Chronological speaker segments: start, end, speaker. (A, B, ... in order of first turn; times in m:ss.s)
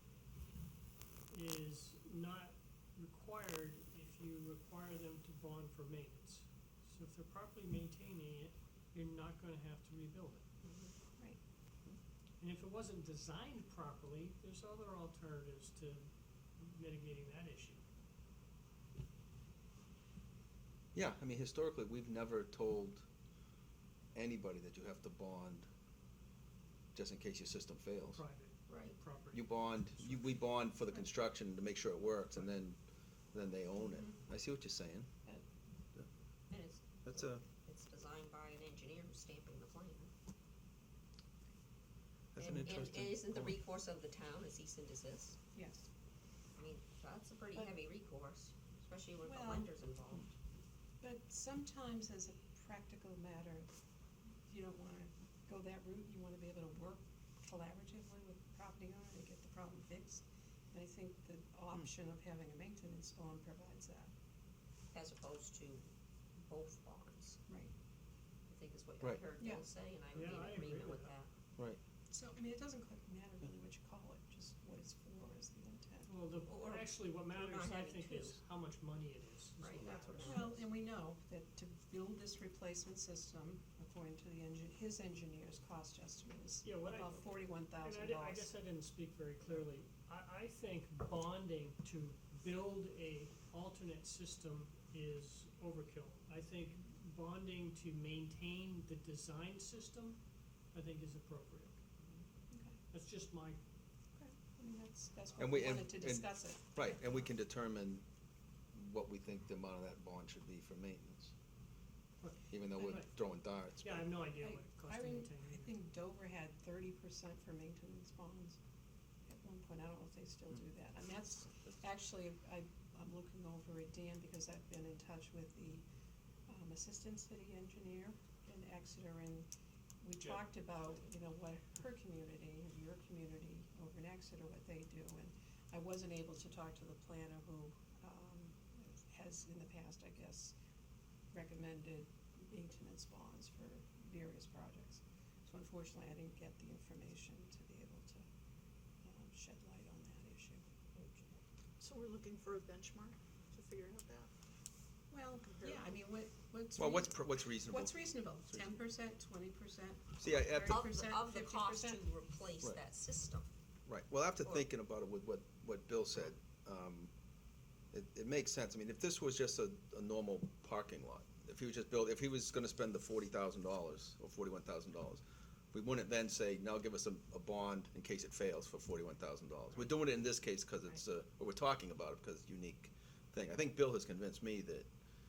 0:01.3-0:10.4 A
0:10.6-0:10.9 B
0:12.4-0:16.1 A
0:16.6-0:17.8 A
0:20.9-0:23.0 C
0:24.2-0:25.7 C
0:27.0-0:28.2 C
0:28.1-0:30.4 A
0:28.7-0:29.0 B
0:29.3-0:32.8 C
0:33.3-0:35.1 C
0:33.8-0:34.1 D
0:36.5-0:40.1 B
0:37.0-0:37.4 C
0:42.4-0:43.5 C
0:42.4-0:45.4 B
0:45.6-0:45.9 D
0:46.6-0:50.3 B
0:49.2-0:49.7 D
0:51.0-0:53.7 D
0:54.4-1:04.1 D
1:04.9-1:07.4 B
1:08.5-1:11.3 B
1:09.4-1:09.6 D
1:10.1-1:11.2 A
1:12.1-1:16.8 D
1:16.1-1:20.2 A
1:16.4-1:18.4 B
1:19.6-1:20.7 B
1:19.8-1:20.5 C
1:20.2-1:28.5 D
1:26.6-1:40.2 A
1:40.7-1:41.8 A
1:42.5-1:42.8 D
1:42.9-1:43.6 A
1:44.2-1:47.3 D
1:45.4-1:48.0 C
1:48.7-1:51.3 C
1:52.2-1:53.1 A
1:52.5-1:54.1 C
1:53.7-1:55.7 A
1:54.4-1:58.6 D
1:59.3-2:05.8 D
2:06.5-2:09.5 D
2:10.0-2:20.6 D
2:21.3-2:28.3 D
2:29.0-2:30.6 D
2:31.0-2:31.3 B
2:31.8-2:34.3 E
2:35.1-2:42.0 D
2:35.4-2:35.9 E
2:36.8-2:38.7 C
2:40.2-2:40.8 C
2:40.7-2:43.5 B
2:43.9-2:47.1 C
2:47.9-2:55.2 C
2:55.7-3:04.9 C